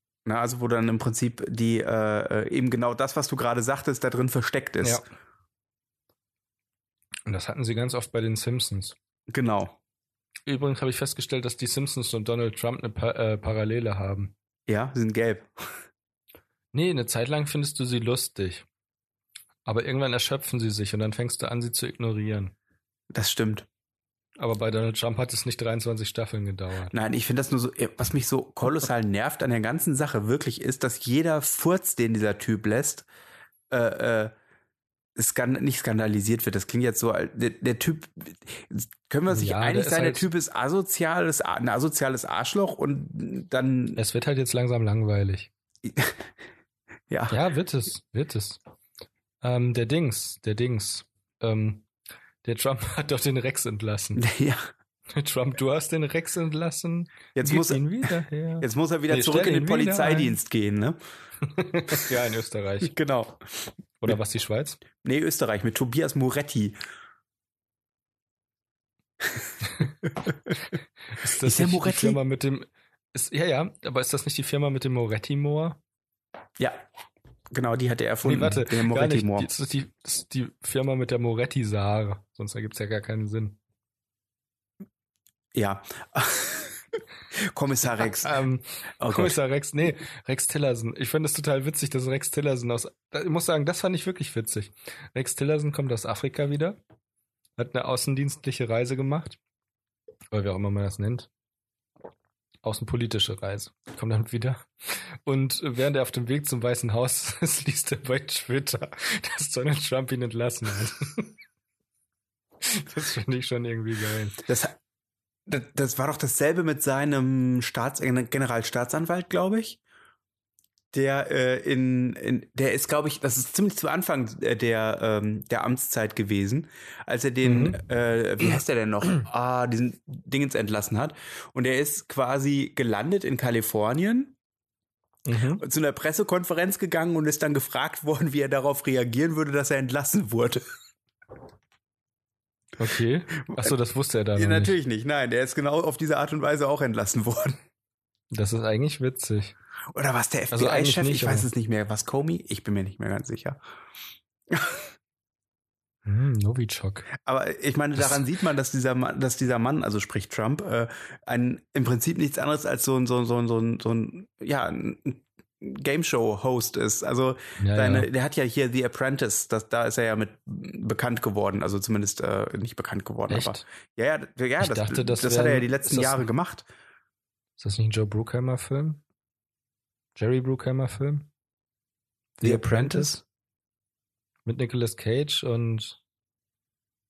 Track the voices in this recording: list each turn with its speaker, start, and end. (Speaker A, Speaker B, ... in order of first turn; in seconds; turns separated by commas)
Speaker A: 0.3-5.0, Speaker B: 7.3-9.0, Speaker A: 9.3-9.8, Speaker B: 10.5-14.3, Speaker A: 14.7-15.5, Speaker B: 16.7-18.7, Speaker B: 19.6-22.5, Speaker A: 23.1-23.7, Speaker B: 24.4-26.9, Speaker A: 26.9-33.1, Speaker A: 33.7-34.3, Speaker A: 35.2-44.0, Speaker B: 39.3-40.3, Speaker B: 44.0-45.5, Speaker A: 45.8-46.2, Speaker A: 47.1-47.4, Speaker B: 47.3-48.6, Speaker B: 49.4-51.9, Speaker B: 52.4-54.2, Speaker A: 54.2-54.7, Speaker B: 55.1-60.4, Speaker A: 57.4-57.8, Speaker A: 58.6-61.0, Speaker B: 61.4-62.9, Speaker A: 62.8-63.6, Speaker B: 64.0-64.8, Speaker A: 65.0-66.8, Speaker B: 69.6-69.9, Speaker B: 70.6-75.8, Speaker A: 71.4-72.2, Speaker A: 77.5-79.5, Speaker B: 78.2-83.6, Speaker A: 85.5-86.8, Speaker A: 87.4-88.3, Speaker B: 88.2-96.8, Speaker A: 89.0-89.4, Speaker B: 97.6-99.4, Speaker B: 100.3-101.3, Speaker B: 102.6-111.3, Speaker B: 112.6-114.4, Speaker A: 114.4-114.8, Speaker A: 115.5-119.8, Speaker A: 120.9-134.3, Speaker B: 127.4-127.8, Speaker B: 135.2-135.6, Speaker A: 135.6-140.6, Speaker B: 142.8-144.8, Speaker A: 144.4-147.6, Speaker B: 148.3-149.6, Speaker A: 149.9-153.6, Speaker B: 150.5-151.5, Speaker A: 154.5-154.9, Speaker B: 156.1-157.1, Speaker A: 157.2-176.7, Speaker B: 167.6-168.1, Speaker B: 173.3-173.6, Speaker B: 174.6-176.3, Speaker B: 177.6-179.0, Speaker B: 180.2-181.3, Speaker B: 182.4-183.2, Speaker A: 182.4-183.2, Speaker B: 184.5-186.0